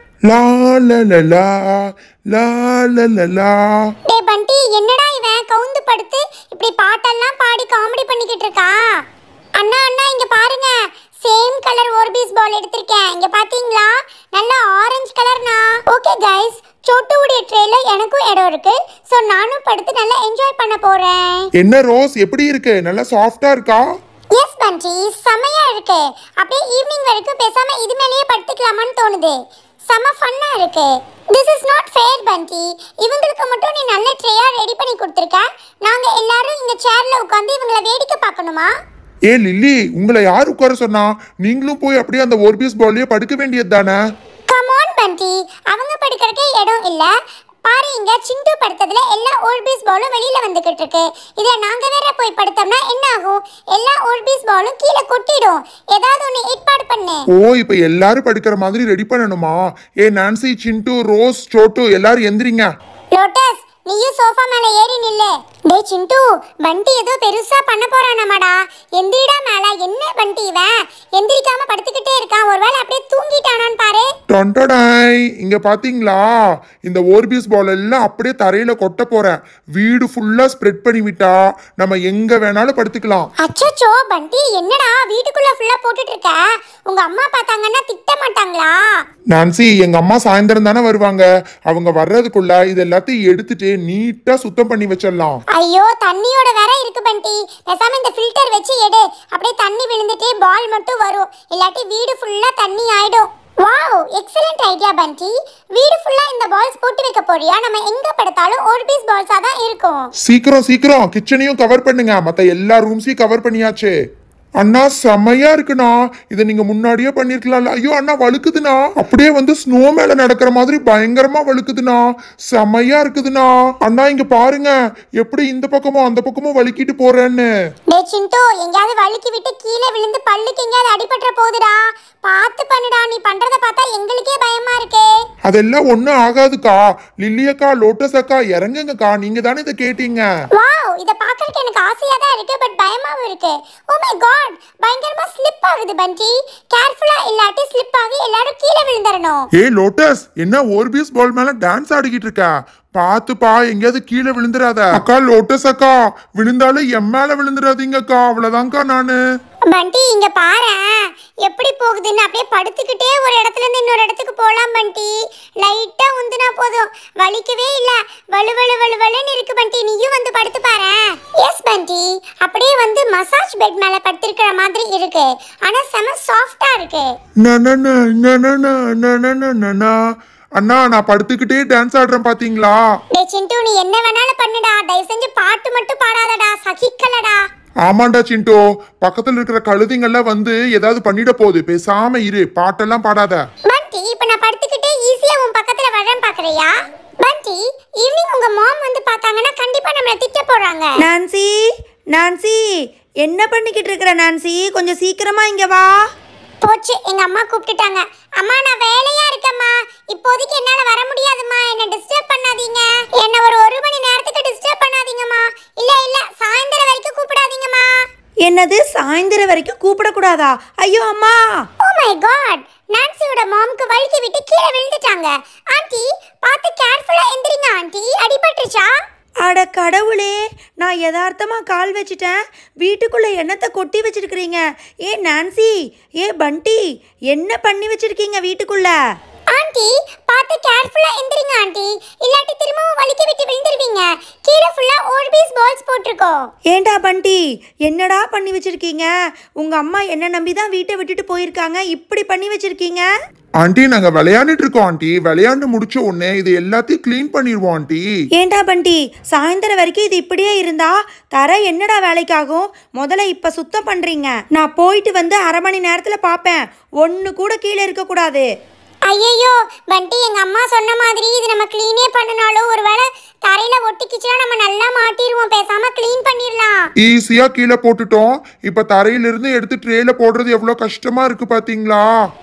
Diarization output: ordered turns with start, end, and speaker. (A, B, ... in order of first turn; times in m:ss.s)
0:00.3-0:03.9 A
0:04.1-0:08.8 B
0:09.6-0:21.5 B
0:21.6-0:23.8 A
0:24.3-0:29.4 B
0:29.9-0:38.7 B
0:39.3-0:44.0 A
0:44.5-0:47.1 B
0:47.6-0:57.2 B
0:57.3-1:02.7 A
1:03.1-1:14.1 B
1:14.3-1:16.2 A
1:16.8-1:23.3 A
1:23.4-1:28.8 B
1:29.3-1:35.4 A
1:35.5-1:50.1 B
1:50.2-1:53.9 A
1:54.6-2:07.5 A
2:07.9-2:15.1 B
2:15.5-2:20.2 A
2:20.6-2:29.5 B
2:29.6-2:39.2 A
2:39.7-2:40.8 B
2:41.4-2:57.1 B
2:57.4-3:00.0 A
3:00.6-3:02.8 A
3:03.1-3:07.4 B
3:07.8-3:13.4 A
3:13.7-3:16.7 B
3:17.2-3:21.0 B
3:21.0-3:21.5 C
3:22.1-3:22.6 C
3:23.2-3:25.9 C
3:26.6-3:37.9 B
3:38.4-3:41.6 C
3:41.8-3:48.9 B
3:49.4-3:59.0 C
3:59.5-4:06.5 B
4:06.7-4:13.1 C
4:13.6-4:18.0 A
4:18.4-4:28.4 C
4:29.1-4:36.8 B
4:37.0-4:42.0 A